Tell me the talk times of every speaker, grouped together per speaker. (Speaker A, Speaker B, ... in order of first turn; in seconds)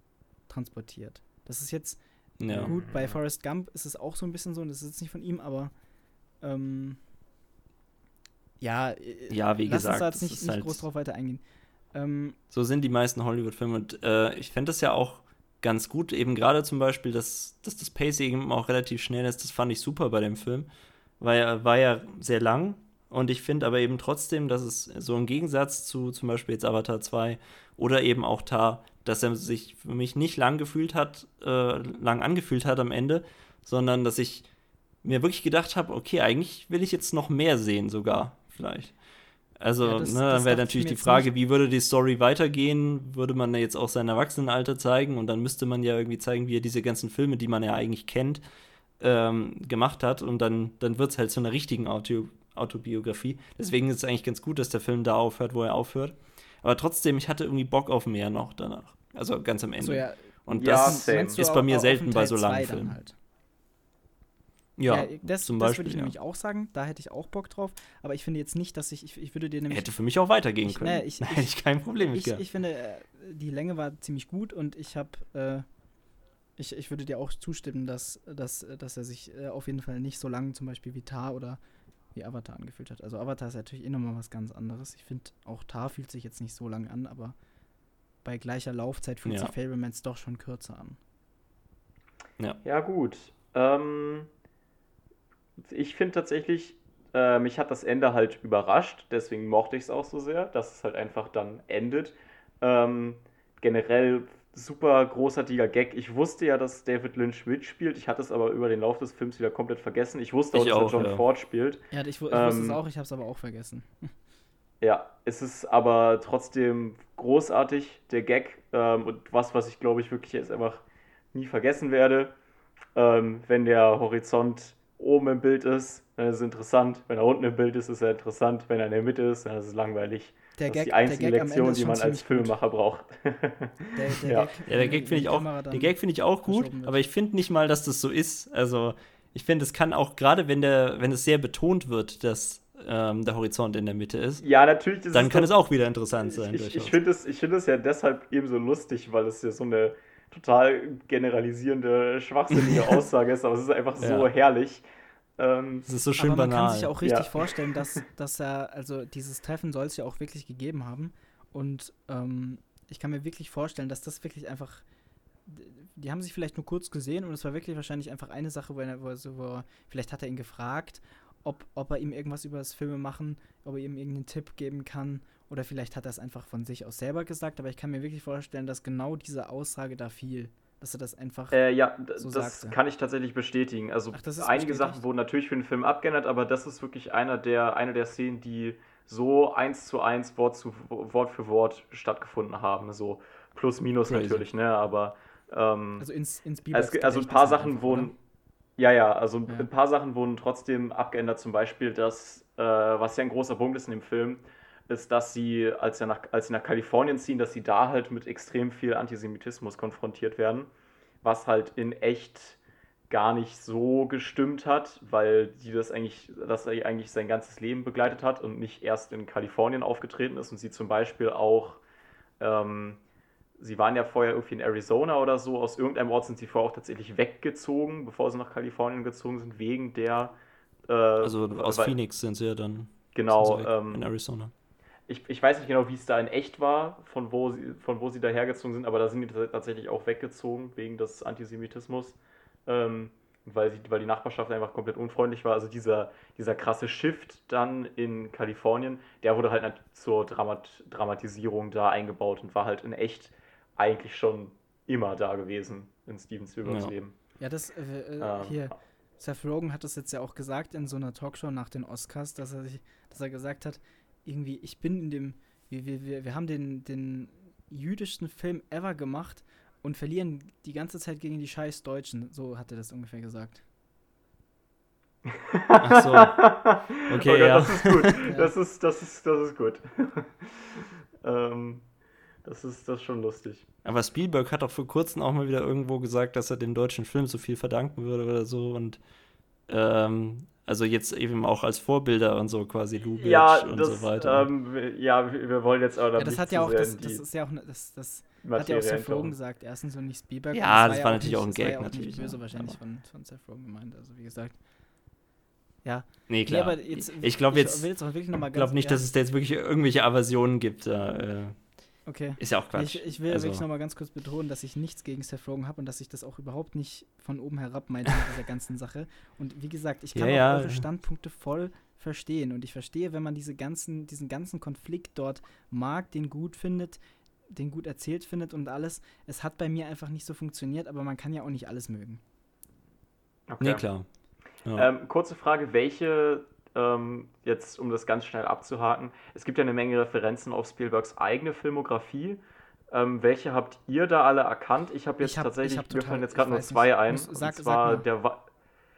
Speaker A: 0.5-5.7, 6.4-7.0, 8.6-11.4, 11.9-12.4, 39.8-41.3, 59.8-63.2, 64.9-69.8, 70.7-71.5, 72.1-75.7, 76.6-81.6, 82.1-87.3, 88.2-91.0, 111.9-114.1, 130.6-132.5, 133.9-137.0, 156.2-164.8, 165.4-181.6, 182.2-182.8, 184.1-185.0, 196.0-198.1, 257.4-273.6, 296.2-304.6, 305.8-309.0, 312.1-327.0, 327.5-332.2, 345.2-348.1
Speaker B: 2.4-2.7, 9.3-10.8, 12.5-20.7, 21.2-34.5, 35.0-38.9, 39.6-48.4, 49.0-63.0, 64.8-66.1, 69.7-72.4, 89.2-89.5, 110.5-111.2, 134.7-144.4, 145.1-147.0, 152.5-152.9, 154.0-154.3, 155.9-156.9, 194.1-194.4, 231.2-234.5, 256.6-256.9, 275.8-276.4, 277.1-278.1, 283.8-289.0, 289.7-294.5, 300.5-302.8, 306.3-311.6, 312.4-313.6, 320.1-320.8, 333.6-334.1
Speaker C: 2.6-3.1, 60.5-61.4, 92.6-94.3, 95.7-112.8, 114.8-122.3, 122.9-134.5, 144.4-145.5, 146.2-154.8, 155.4-155.9, 157.0-158.0, 181.5-196.1, 196.7-198.1, 198.8-210.7, 211.2-212.6, 213.1-221.8, 222.4-223.0, 223.6-231.9, 233.1-234.0, 235.1-257.1, 258.2-258.7, 275.3-281.8, 282.4-283.6, 293.1-297.2, 298.4-299.4, 333.5-333.8, 334.7-348.4